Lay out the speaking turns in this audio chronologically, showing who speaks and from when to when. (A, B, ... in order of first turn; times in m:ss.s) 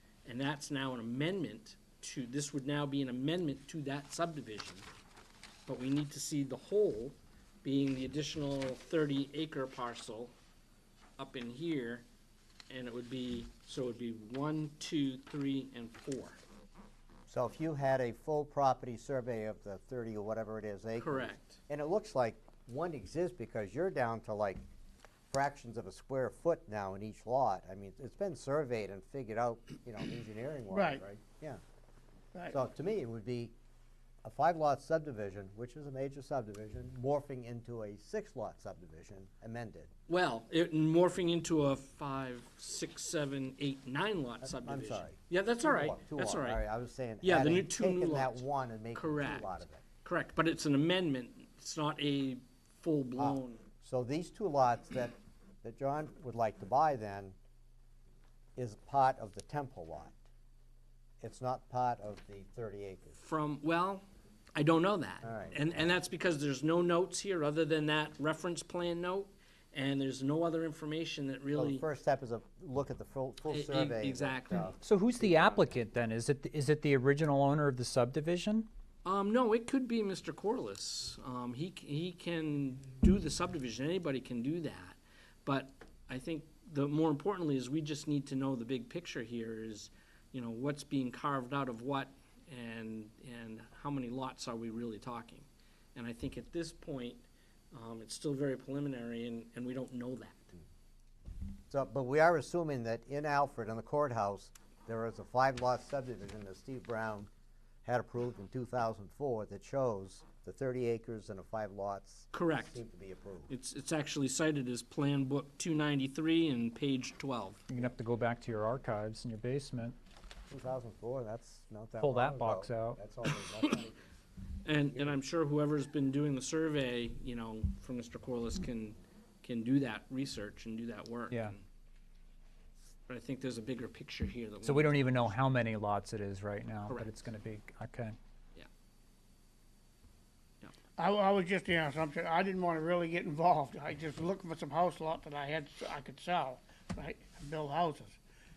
0:00.2-0:04.9 A
0:05.7-0:10.3 A
0:11.2-0:12.1 A
0:12.7-0:16.4 A
0:17.3-0:24.6 B
0:21.0-0:21.6 A
0:25.3-0:31.6 B
0:30.7-0:31.0 C
0:32.5-0:33.6 B
0:34.2-0:39.9 B
0:40.1-0:46.6 A
0:44.4-0:49.8 B
0:47.2-0:53.6 A
0:53.2-0:57.4 B
0:58.6-1:00.2 B
1:01.2-1:03.2 B
1:03.2-1:11.8 A
1:05.2-1:05.6 B
1:11.6-1:15.7 B
1:13.5-1:14.7 A
1:14.8-1:18.7 D
1:19.0-1:40.5 A
1:41.7-1:47.3 B
1:47.8-1:53.5 B
1:52.3-1:52.8 A
1:53.5-1:57.6 A
1:57.7-2:00.0 D
2:00.5-2:04.0 B
2:02.0-2:03.0 D
2:04.6-2:11.6 A
2:13.1-2:15.3 A
2:14.6-2:18.2 D
2:16.8-2:17.1 A
2:21.0-2:28.2 C